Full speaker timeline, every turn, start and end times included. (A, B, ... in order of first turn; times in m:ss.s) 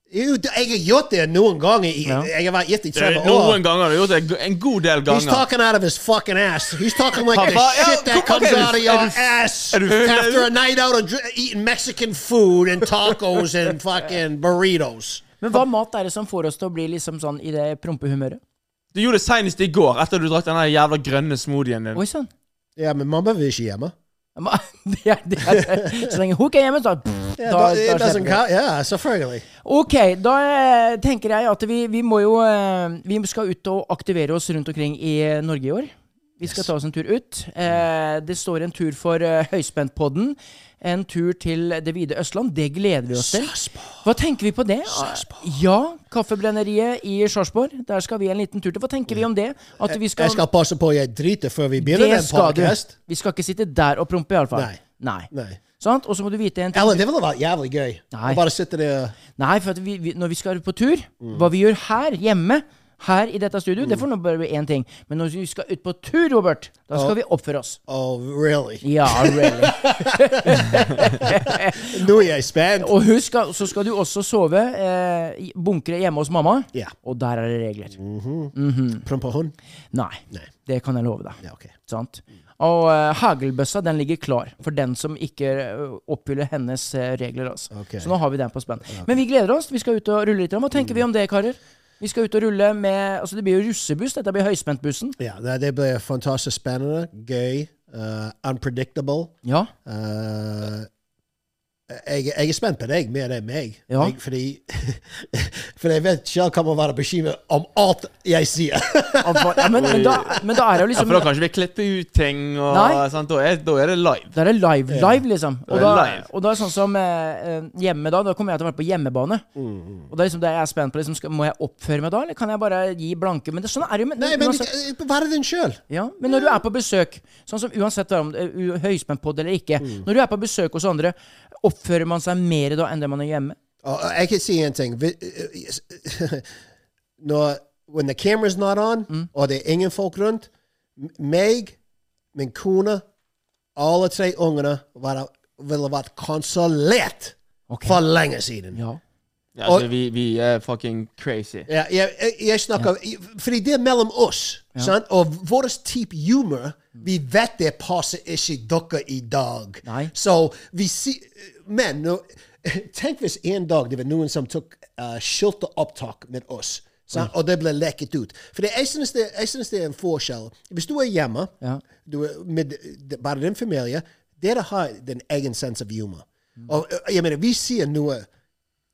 0:00.1-0:03.6 A
0:02.9-0:05.4 B
0:05.1-0:15.2 A
0:07.3-0:10.5 B
0:07.4-0:07.8 C
0:15.4-0:18.4 C
0:18.9-0:22.0 B
0:21.9-0:22.3 C
0:22.8-0:23.9 A
0:24.4-0:28.4 C
0:25.5-0:26.1 A
0:27.4-0:29.4 A
0:29.6-0:50.4 C
0:43.1-0:44.1 A
0:44.8-0:45.6 A
0:49.8-0:52.9 A
0:51.8-0:57.0 C
0:54.5-0:55.6 A
0:56.7-0:59.2 A
0:58.1-0:58.4 C
0:59.3-1:07.8 C
1:01.2-1:01.5 A
1:03.8-1:04.0 A
1:07.9-1:12.9 A
1:08.8-1:12.0 C
1:12.8-1:18.0 C
1:18.0-1:19.5 A
1:18.5-1:19.0 C
1:19.9-1:35.2 C
1:21.4-1:21.7 A
1:27.7-1:28.1 A
1:30.7-1:31.0 A
1:35.2-1:40.9 A
1:39.4-1:39.7 C
1:41.9-1:50.6 A
1:43.9-1:44.1 C
1:49.2-1:51.3 C
1:49.8-1:50.3 B
1:50.9-1:54.4 B
1:52.7-1:53.0 C
1:54.3-1:59.4 C
1:54.9-1:56.0 A
1:55.7-1:56.3 B
1:59.6-2:00.1 A
2:00.1-2:04.7 C
2:04.2-2:06.6 A
2:05.9-2:13.6 C
2:09.8-2:10.0 A
2:13.8-2:16.5 A
2:17.2-2:21.8 A
2:22.3-2:23.0 A
2:23.8-2:28.8 A
2:27.7-2:28.0 C
2:28.7-2:29.0 C
2:29.6-2:31.7 B
2:31.7-2:51.5 A
2:39.8-2:40.1 C
2:52.0-2:58.3 A